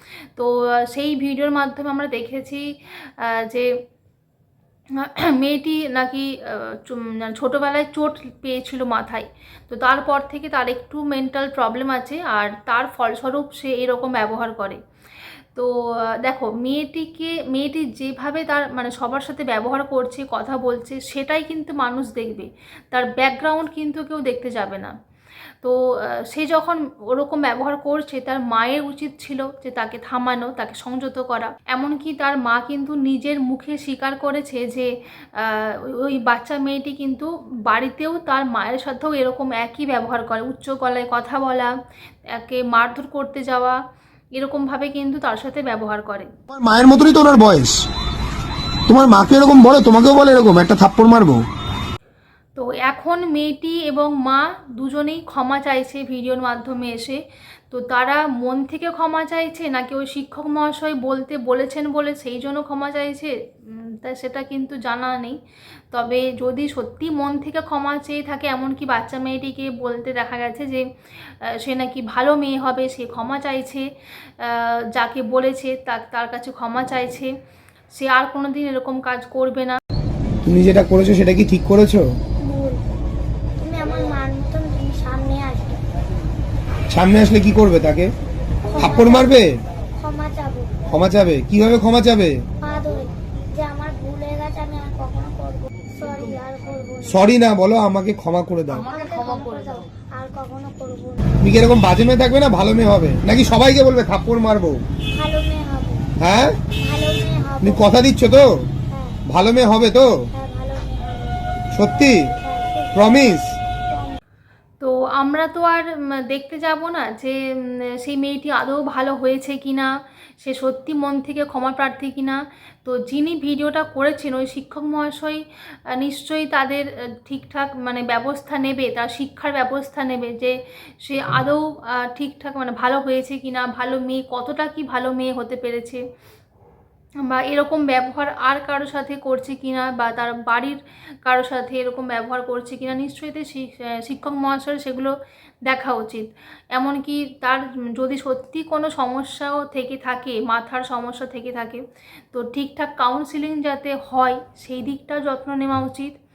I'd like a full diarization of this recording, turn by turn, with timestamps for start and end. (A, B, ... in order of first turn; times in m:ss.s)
0:00.4-0:03.7 A
0:05.0-0:14.8 A
0:15.5-0:24.9 A
0:25.6-0:41.7 A
0:42.3-0:43.8 A
0:44.4-0:46.3 A
0:46.5-0:47.8 B
0:48.9-0:51.4 B
0:52.6-1:05.4 A
1:05.9-1:17.3 A
1:17.9-1:19.8 A
1:20.4-1:22.1 B
1:22.4-1:22.8 C
1:23.6-1:25.8 C
1:26.9-1:28.1 B
1:28.7-1:29.3 C
1:28.8-1:29.5 B
1:30.0-1:30.7 C
1:30.9-1:32.4 B
1:32.6-1:37.2 C
1:37.1-1:38.9 B
1:38.9-1:41.3 C
1:41.4-1:44.8 B
1:45.1-1:46.1 C
1:46.2-1:46.6 B
1:46.8-1:47.8 C
1:47.6-1:48.7 B
1:48.9-1:49.2 C
1:49.3-1:50.2 B
1:50.3-1:53.3 C
1:51.8-1:52.3 B
1:53.0-1:53.5 B
1:53.9-1:54.2 C
1:54.8-2:16.0 A
2:17.3-2:36.2 A